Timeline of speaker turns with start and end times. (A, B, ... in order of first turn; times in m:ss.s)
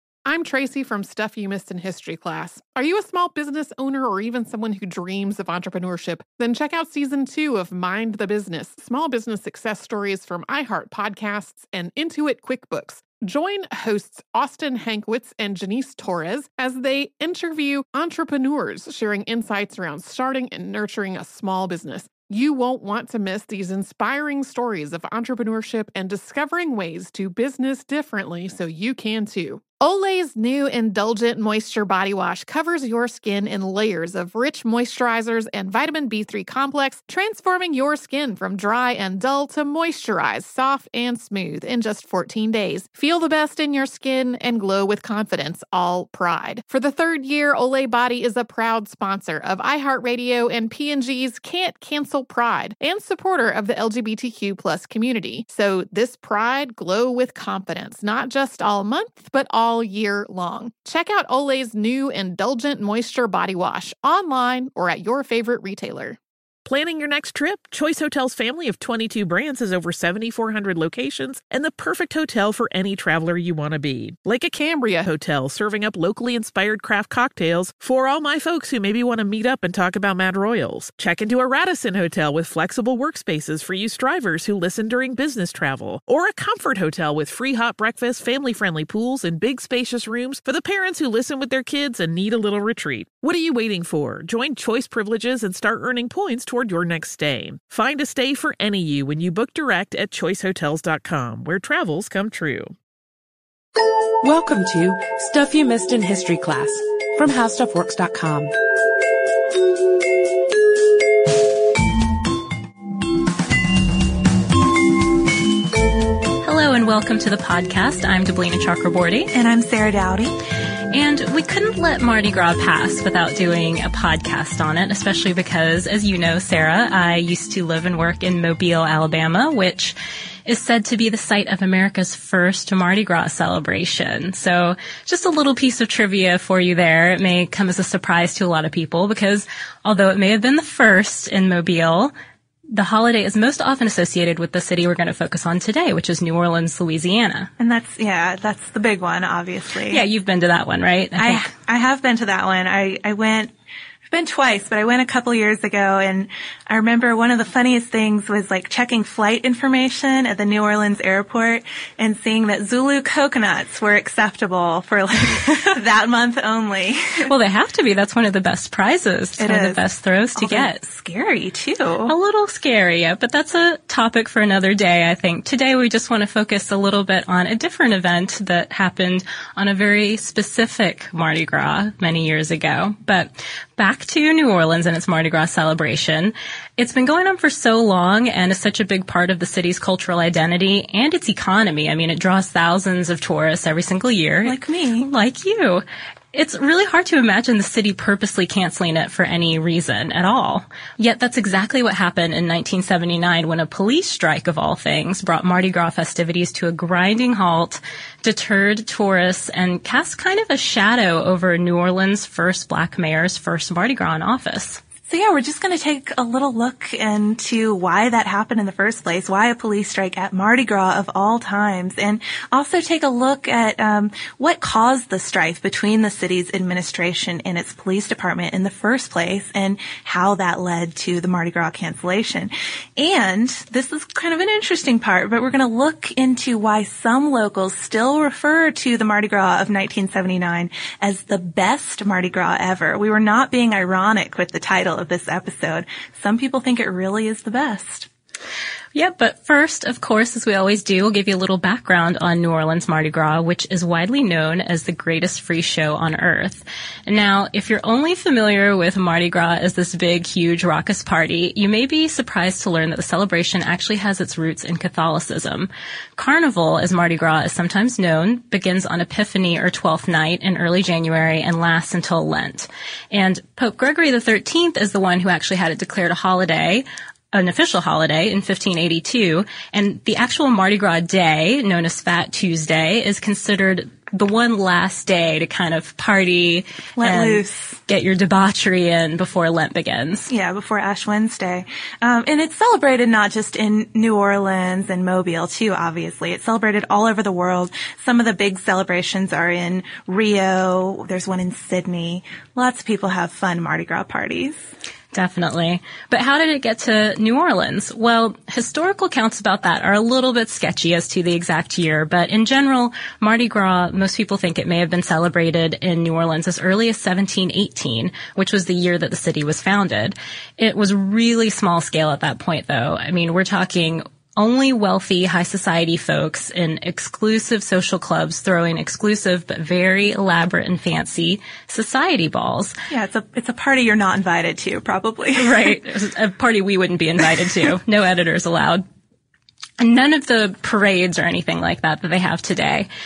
0:00.2-1:06.2 A
1:06.6-1:42.7 B
1:14.6-1:14.9 A
1:44.2-1:48.5 C
1:56.4-1:59.3 D
1:59.3-2:00.3 E
2:00.9-2:09.9 D
2:10.5-2:22.1 D
2:22.7-2:27.5 D
2:27.6-2:30.0 E
2:29.9-2:31.5 D
2:31.2-2:33.5 E
2:34.1-2:47.3 E
2:47.3-2:50.8 D
2:49.4-2:49.8 E
2:50.4-2:52.1 E
2:52.1-3:34.8 D
3:14.4-3:15.1 E
3:35.1-4:08.1 E
4:08.9-4:50.3 D
4:47.0-4:47.8 E
4:50.3-5:04.7 E
5:05.1-5:32.7 D
5:32.9-5:35.8 E
5:35.4-5:38.8 D
5:39.8-5:42.9 D